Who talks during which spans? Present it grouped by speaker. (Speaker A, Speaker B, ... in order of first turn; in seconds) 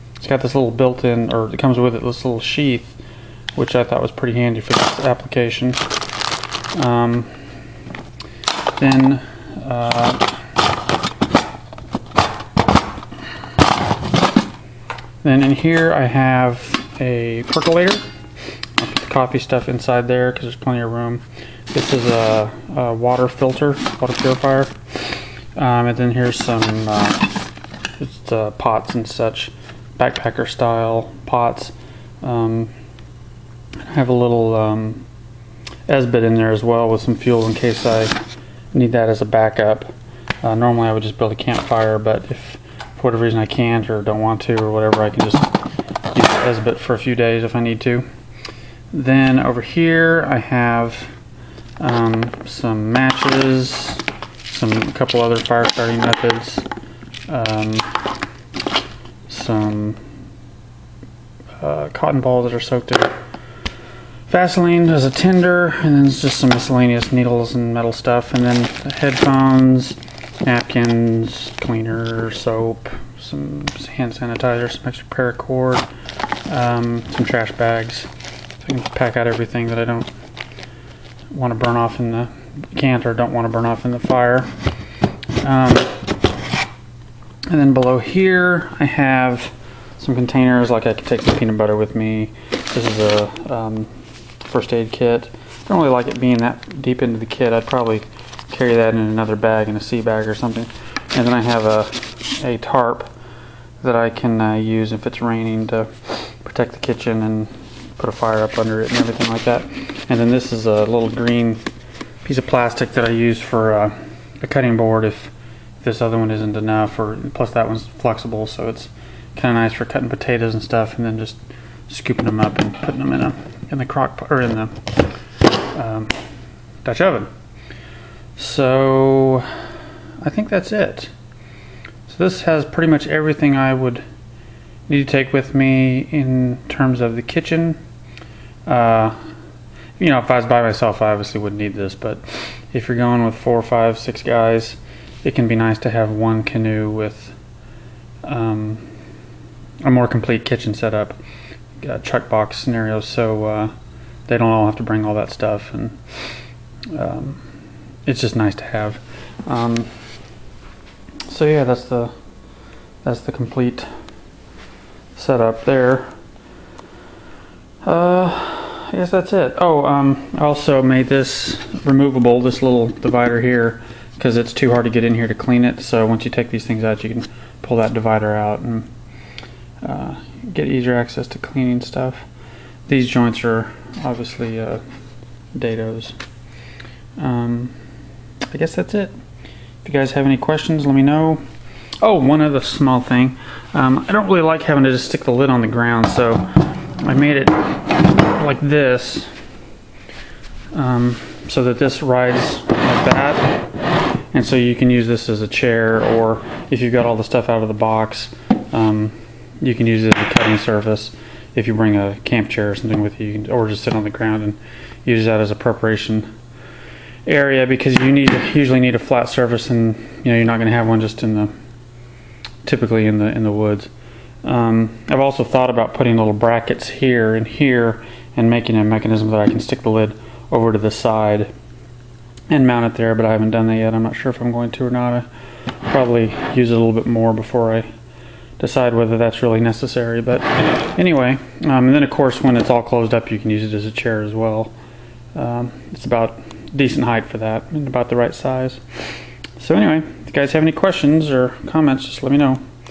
Speaker A: 0.2-2.9, 3.5-5.8, 6.7-7.5, 8.8-10.3, 15.2-18.1, 18.8-27.4, 28.0-32.7, 33.9-35.0, 35.9-38.2, 38.7-39.9, 40.4-45.5, 46.1-48.1, 48.9-51.1, 51.8-56.7, 57.3-58.0, 59.3-60.0, 61.6-63.1, 64.3-75.9, 76.5-78.1, 78.6-80.1, 81.3-84.5, 85.4-86.0, 87.5-93.9, 94.4-103.1, 103.8-111.6, 112.2-121.4, 121.9-124.8, 125.7-126.1, 126.8-127.3, 128.4-129.5, 130.2-131.1, 132.1-134.0, 134.9-137.8, 138.7-139.2, 140.0-147.4, 148.2-148.9, 149.8-151.2, 151.8-153.7, 154.3-156.0, 156.9-157.4, 158.1-159.9, 161.3-162.1, 163.0-163.9, 165.2-166.1, 167.8-178.9, 179.8-182.3, 182.9-184.8, 185.5-186.2, 187.2-187.8, 188.5-189.1, 189.8-191.4, 192.0-199.3, 200.7-203.7, 204.3-216.3, 217.3-221.5, 222.6-223.9, 224.4-231.5, 232.5-235.3, 235.8-237.9, 238.6-244.7, 245.3-248.8, 249.6-252.6